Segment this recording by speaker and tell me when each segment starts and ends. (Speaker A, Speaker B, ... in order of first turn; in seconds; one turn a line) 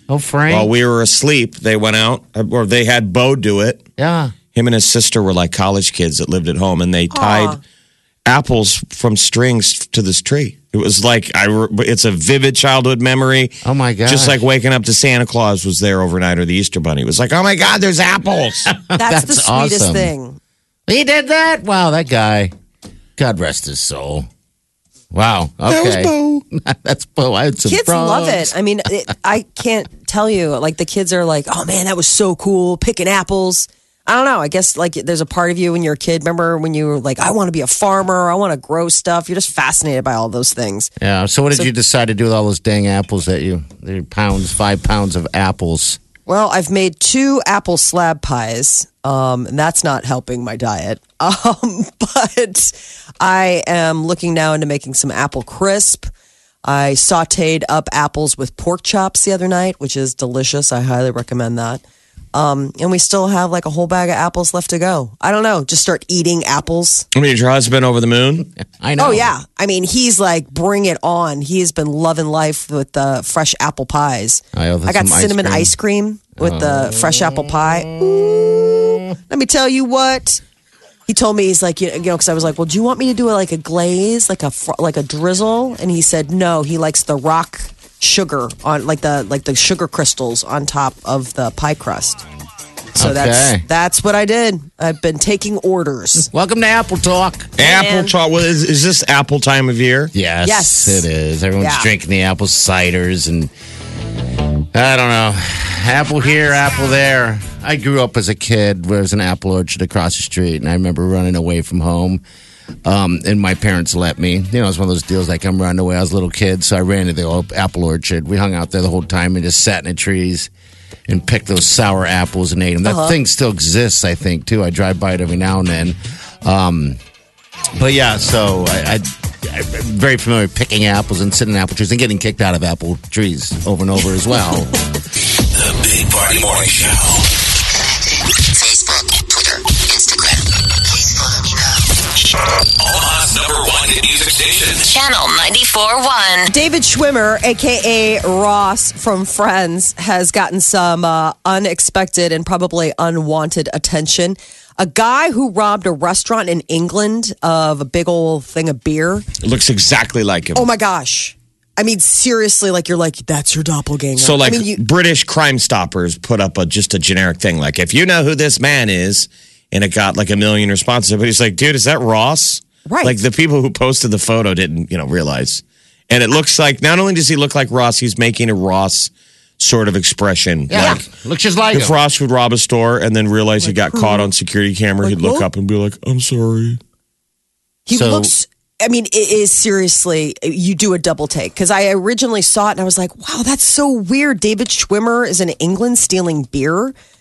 Speaker A: 0.1-0.7
Speaker B: 0.5-3.8
Speaker A: 4.0-4.3
Speaker B: 4.5-7.6
Speaker C: 7.1-7.6
Speaker B: 8.2-18.7
Speaker A: 13.6-14.4
Speaker A: 18.7-20.1
Speaker C: 18.9-20.4
Speaker A: 20.9-22.5
Speaker A: 23.2-24.3
Speaker A: 25.1-28.5
Speaker B: 25.7-26.4
Speaker C: 27.6-40.9
Speaker A: 41.0-46.0
Speaker C: 46.3-56.1
Speaker C: 56.6-61.8
Speaker C: 62.3-67.0
Speaker B: 67.1-68.5
Speaker A: 68.7-69.3
Speaker C: 69.0-80.4
Speaker A: 74.5-75.7
Speaker A: 76.4-79.0
Speaker C: 81.1-92.2
Speaker A: 92.9-93.6
Speaker C: 93.0-96.3
Speaker A: 96.2-97.5
Speaker B: 97.6-100.1
Speaker C: 97.6-98.1
Speaker A: 100.1-103.5
Speaker C: 100.4-101.0
Speaker C: 101.6-101.9
Speaker A: 104.7-112.2
Speaker A: 112.8-120.5
Speaker A: 121.1-127.0
Speaker C: 122.8-123.2
Speaker A: 127.8-134.8
Speaker D: 135.4-137.3
Speaker E: 138.4-140.4
Speaker E: 141.0-141.5
Speaker D: 142.5-144.9
Speaker E: 144.9-146.5
Speaker C: 146.5-159.2
Speaker B: 159.4-160.7
Speaker C: 160.5-164.8
Speaker B: 164.2-181.0
Speaker C: 172.8-173.1
Speaker A: 180.7-181.9
Speaker C: 180.8-181.0
Speaker B: 181.7-186.8
Speaker C: 183.6-184.3
Speaker C: 185.0-185.5
Speaker C: 187.8-196.9
Speaker A: 187.9-188.3